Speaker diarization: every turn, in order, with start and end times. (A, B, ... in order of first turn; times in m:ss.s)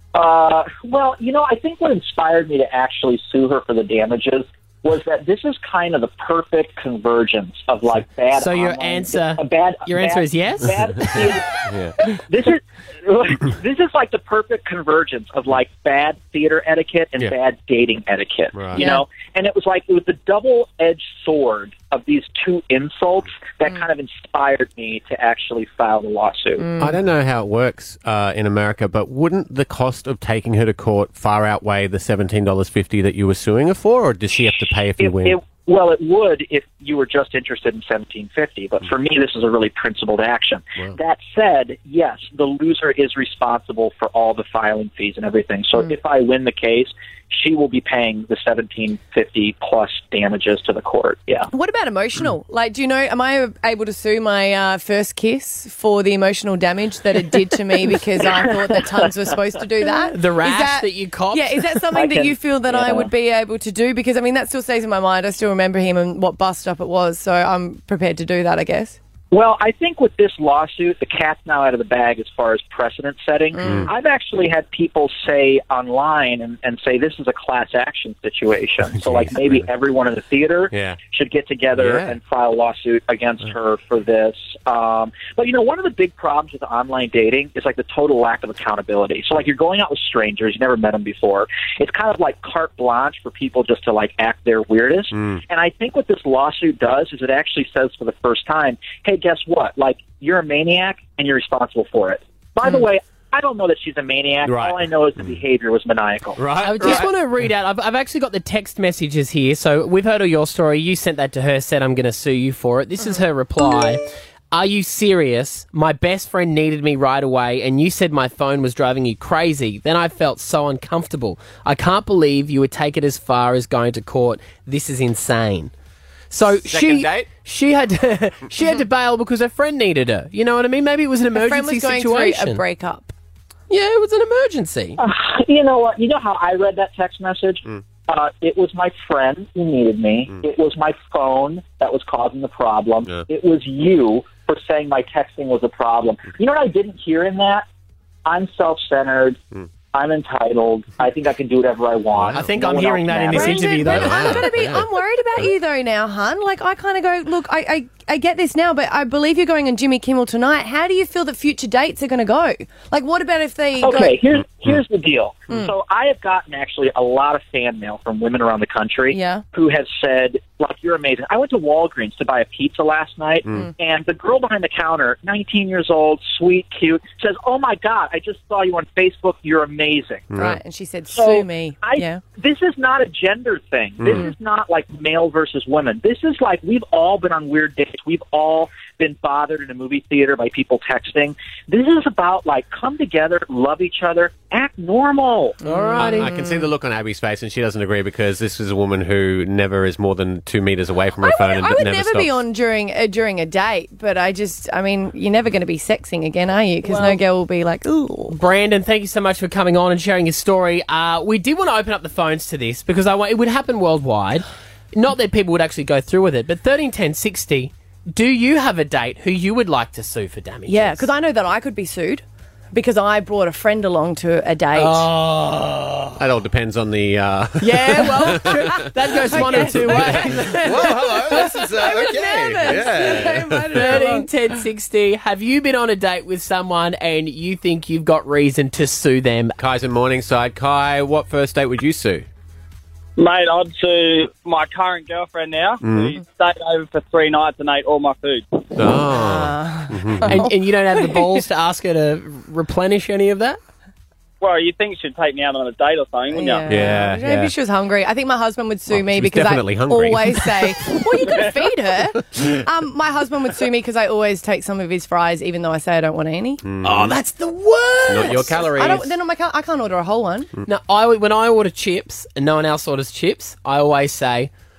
0:00.1-0:26.7 A
0:08.3-0:11.3 B
0:11.6-0:12.0 C
0:18.5-0:18.9 C
0:26.6-0:26.9 D
0:26.8-0:35.4 C
0:35.0-0:51.5 A
0:51.5-1:09.0 D
1:00.0-1:02.3 B
1:02.0-1:03.1 A
1:09.3-1:46.4 A
1:13.6-1:13.9 D
1:13.6-1:13.9 C
1:19.0-1:19.7 C
1:20.7-1:21.0 C
1:21.8-1:22.2 C
1:35.2-1:35.4 C
1:44.4-1:45.3 C
1:46.4-1:47.1 C
1:46.6-2:05.7 B
2:06.3-2:12.6 B
2:06.6-2:07.3 C
2:11.4-2:13.1 D
2:13.7-2:15.0 B
2:15.0-2:27.7 A
2:28.2-2:29.4 A
2:29.9-2:33.9 A
2:32.1-2:32.5 C
2:32.3-2:34.4 B
2:33.3-2:44.2 D
2:33.8-2:34.9 C
2:43.8-3:00.3 A
2:49.1-2:49.4 D
3:00.3-3:00.6 C
3:00.4-3:02.2 D
3:01.1-3:15.6 A
3:04.0-3:04.3 C
3:15.6-3:16.7 D
3:15.6-3:16.3 B
3:16.0-3:22.4 C
3:21.2-3:28.4 D
3:26.8-3:27.2 B
3:28.3-3:41.1 B
3:40.7-3:45.1 D
3:44.8-3:46.2 B
3:46.2-3:54.0 C
3:47.6-3:51.3 B
3:47.7-3:54.3 D
3:53.7-3:59.6 B
3:59.6-4:02.3 C
4:03.2-4:08.5 E
4:05.8-4:06.2 C
4:08.7-4:10.4 C
4:09.1-4:11.2 D
4:10.2-4:13.6 B
4:14.4-4:16.9 E
4:16.3-4:26.6 D
4:16.7-4:17.6 C
4:18.9-4:20.8 C
4:26.6-4:27.2 C
4:26.8-4:29.1 B
4:28.1-4:29.1 C
4:28.2-4:30.5 D
4:30.7-4:34.5 B